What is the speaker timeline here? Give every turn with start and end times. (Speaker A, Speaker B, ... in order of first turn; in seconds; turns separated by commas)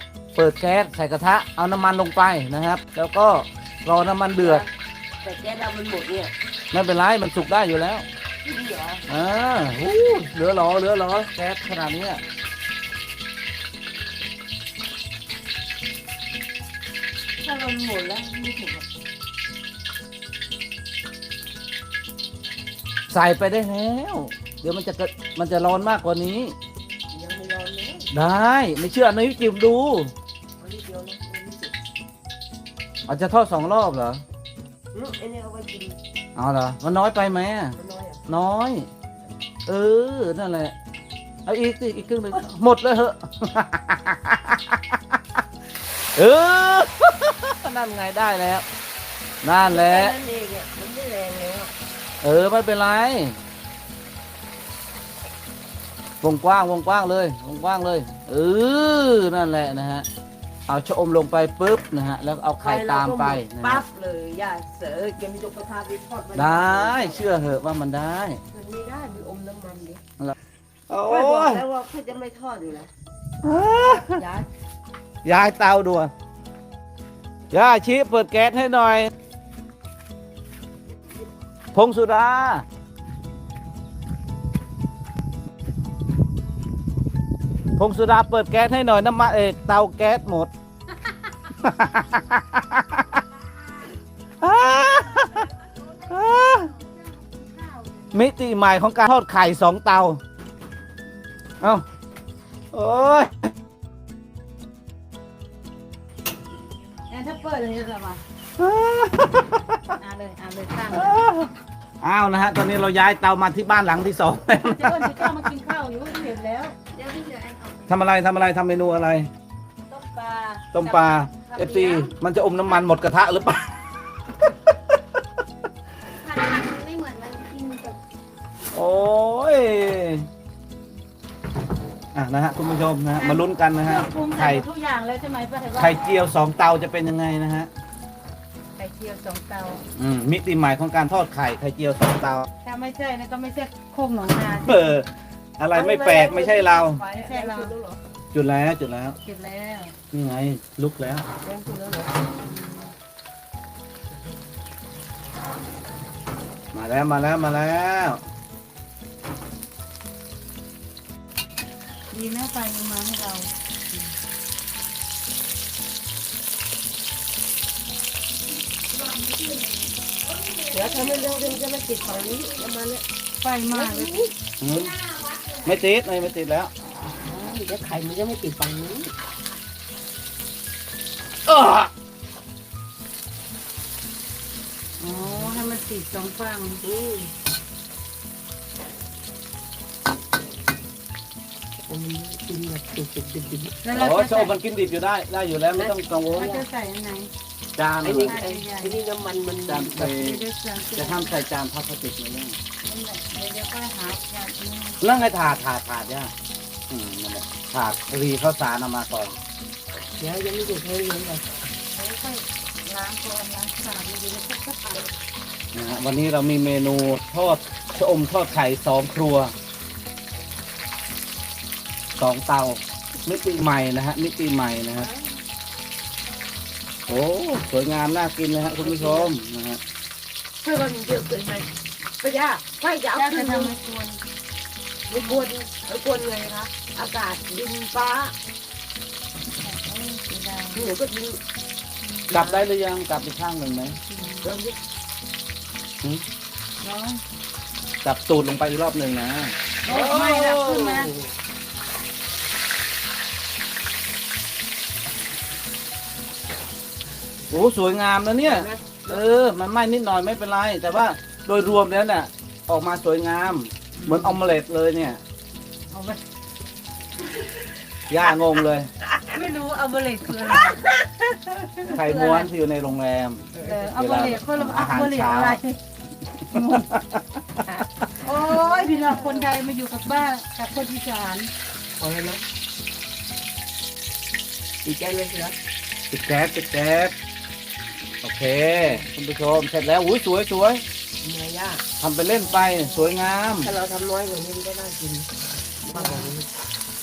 Speaker A: 0.3-4.7, Speaker B: 4.3-4.7, Speaker B: 5.2-6.3, Speaker A: 6.7-8.1, Speaker B: 8.4-9.0, Speaker A: 9.1-12.2, Speaker B: 17.4-18.8, Speaker A: 23.1-26.5, Speaker B: 27.1-28.1, Speaker A: 28.1-30.1, Speaker B: 30.6-31.7, Speaker A: 33.1-34.2, Speaker B: 34.9-36.0, Speaker A: 36.4-38.9, Speaker B: 37.7-38.2, Speaker A: 39.7-40.7, Speaker A: 41.5-45.2, Speaker A: 46.1-48.6, Speaker A: 49.4-50.1, Speaker B: 49.6-51.7, Speaker A: 52.2-53.4, Speaker A: 56.2-60.1, Speaker A: 60.7-63.8, Speaker B: 62.6-67.3, Speaker A: 66.3-68.4, Speaker B: 68.5-70.0, Speaker A: 70.9-71.6, Speaker B: 71.0-72.9, Speaker A: 73.4-74.2, Speaker B: 74.0-74.5, Speaker A: 75.2-76.1, Speaker A: 77.5-79.1, Speaker A: 81.7-82.6, Speaker A: 87.8-90.5, Speaker A: 91.6-93.0, Speaker A: 94.4-95.5, Speaker A: 96.0-96.7, Speaker A: 98.1-100.2, Speaker A: 102.7-103.5, Speaker C: 107.1-108.2, Speaker A: 108.6-109.8, Speaker C: 109.9-111.2, Speaker A: 110.9-111.5, Speaker A: 112.0-115.4, Speaker C: 114.6-116.7, Speaker D: 116.9-117.8, Speaker A: 117.9-119.3, Speaker C: 119.9-122.1, Speaker A: 120.7-123.7, Speaker D: 126.2-128.0, Speaker A: 128.7-130.3, Speaker A: 132.1-134.6, Speaker C: 133.2-135.9, Speaker A: 135.8-137.7, Speaker C: 138.8-139.8, Speaker A: 139.9-142.4, Speaker C: 142.6-144.8, Speaker A: 144.6-145.1, Speaker A: 145.6-147.0, Speaker B: 145.7-148.0, Speaker C: 147.0-147.7, Speaker A: 148.3-149.2, Speaker C: 149.2-149.9, Speaker A: 150.1-151.2, Speaker B: 151.4-152.3, Speaker C: 152.5-152.8, Speaker A: 156.7-158.2, Speaker C: 162.1-163.5, Speaker D: 169.4-169.7, Speaker B: 170.7-173.0, Speaker C: 173.4-174.2, Speaker B: 173.7-174.3, Speaker A: 174.6-175.0, Speaker A: 175.6-176.7, Speaker B: 177.1-179.1, Speaker A: 181.5-181.9, Speaker C: 185.0-186.8, Speaker B: 186.8-187.3, Speaker B: 191.8-193.7, Speaker C: 193.8-194.5, Speaker A: 193.9-196.5, Speaker B: 195.7-196.6, Speaker C: 196.3-197.3, Speaker A: 197.8-198.4, Speaker B: 198.0-200.2, Speaker C: 198.2-199.0, Speaker A: 199.7-202.6, Speaker C: 199.9-201.3, Speaker C: 202.8-205.0, Speaker A: 205.0-206.3, Speaker A: 206.9-209.4, Speaker B: 210.2-211.4, Speaker C: 211.9-215.1, Speaker A: 215.7-219.5, Speaker A: 222.2-225.1, Speaker A: 227.1-229.8, Speaker B: 228.8-229.3, Speaker B: 230.6-233.7, Speaker C: 233.1-234.2, Speaker B: 235.1-238.3, Speaker C: 235.1-235.5, Speaker C: 239.5-240.9, Speaker B: 240.7-241.4, Speaker C: 242.0-242.5, Speaker A: 242.3-244.0, Speaker C: 243.8-244.5, Speaker B: 244.4-244.7, Speaker C: 246.8-247.2, Speaker A: 248.0-251.0, Speaker C: 249.8-251.1, Speaker A: 257.5-265.2, Speaker B: 258.4-259.2, Speaker C: 264.0-264.4, Speaker C: 265.9-266.2, Speaker A: 268.1-268.9, Speaker C: 269.3-270.9, Speaker C: 271.5-272.5, Speaker A: 271.8-275.6, Speaker C: 273.5-275.8, Speaker C: 276.5-276.9, Speaker A: 276.7-277.6, Speaker C: 278.2-281.5, Speaker B: 278.5-279.5, Speaker B: 282.0-282.4, Speaker B: 284.8-285.5, Speaker A: 286.1-287.1, Speaker A: 288.2-290.8, Speaker B: 291.2-291.8, Speaker A: 292.0-293.7, Speaker C: 292.6-293.1, Speaker B: 293.6-295.3, Speaker B: 295.9-296.5, Speaker C: 295.9-296.3